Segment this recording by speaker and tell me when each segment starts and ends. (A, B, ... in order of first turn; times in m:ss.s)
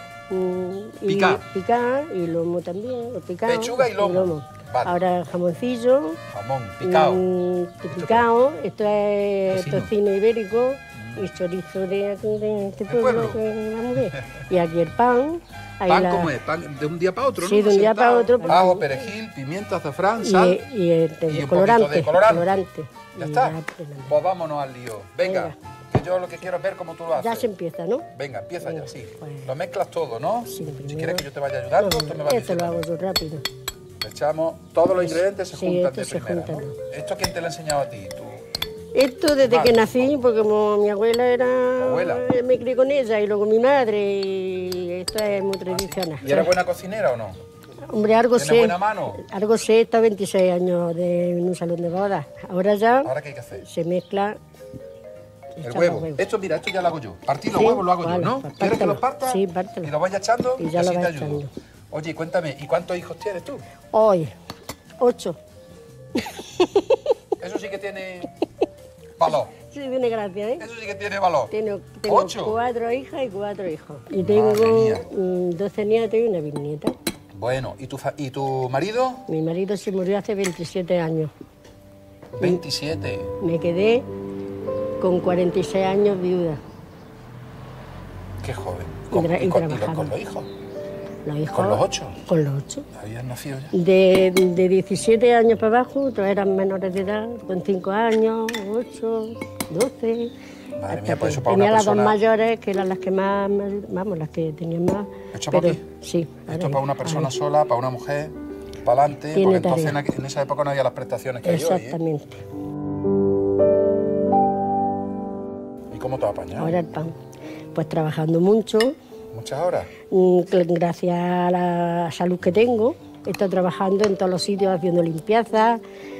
0:00.3-0:06.2 A
0:01.1-0:01.4 B
0:03.5-0:05.0 B
0:06.3-0:07.2 B
0:06.8-0:16.3 A
0:08.0-0:08.2 B
0:09.5-0:09.9 B
0:11.0-0:11.2 B
0:12.9-0:13.4 B
0:15.9-0:20.6 B
0:17.4-0:19.0 A
0:20.2-0:24.1 A
0:21.3-0:23.6 B
0:24.1-0:27.5 B
0:25.2-0:25.5 A
0:27.2-0:28.0 A
0:28.1-0:32.8 B
0:28.6-0:29.5 A
0:30.4-0:31.3 A
0:31.8-0:33.4 A
0:34.0-0:38.4 B
0:34.9-0:36.7 A
0:39.0-0:46.5 A
0:39.4-0:40.2 B
0:41.8-0:42.2 B
0:45.7-0:47.4 B
0:47.9-0:53.1 A
0:48.4-0:49.2 B
0:53.0-0:53.6 B
0:53.6-0:54.4 A
0:55.6-0:56.2 A
0:55.6-1:03.6 B
0:57.5-0:59.9 A
1:00.6-1:01.5 A
1:03.9-1:04.3 A
1:05.0-1:05.4 A
1:07.4-1:08.3 B
1:09.2-1:09.5 B
1:09.7-1:10.6 A
1:10.6-1:11.5 B
1:11.5-1:16.9 A
1:12.0-1:12.6 B
1:14.2-1:15.0 B
1:17.4-1:19.2 B
1:19.3-1:21.3 A
1:22.4-1:23.3 B
1:23.4-1:24.0 A
1:25.0-1:26.6 A
1:28.4-1:30.5 B
1:29.1-1:30.1 A
1:31.2-1:32.8 A
1:31.5-1:32.2 B
1:33.0-1:33.7 B
1:33.7-1:40.3 A
1:40.8-1:42.2 B
1:40.9-1:47.3 A
1:45.3-1:45.8 B
1:46.5-1:48.3 B
1:48.8-1:52.0 B
1:49.3-1:50.0 A
1:51.4-1:52.4 A
1:55.9-1:56.8 B
1:56.6-1:57.1 A
1:57.7-1:58.9 A
1:59.3-1:59.9 B
2:00.1-2:05.8 A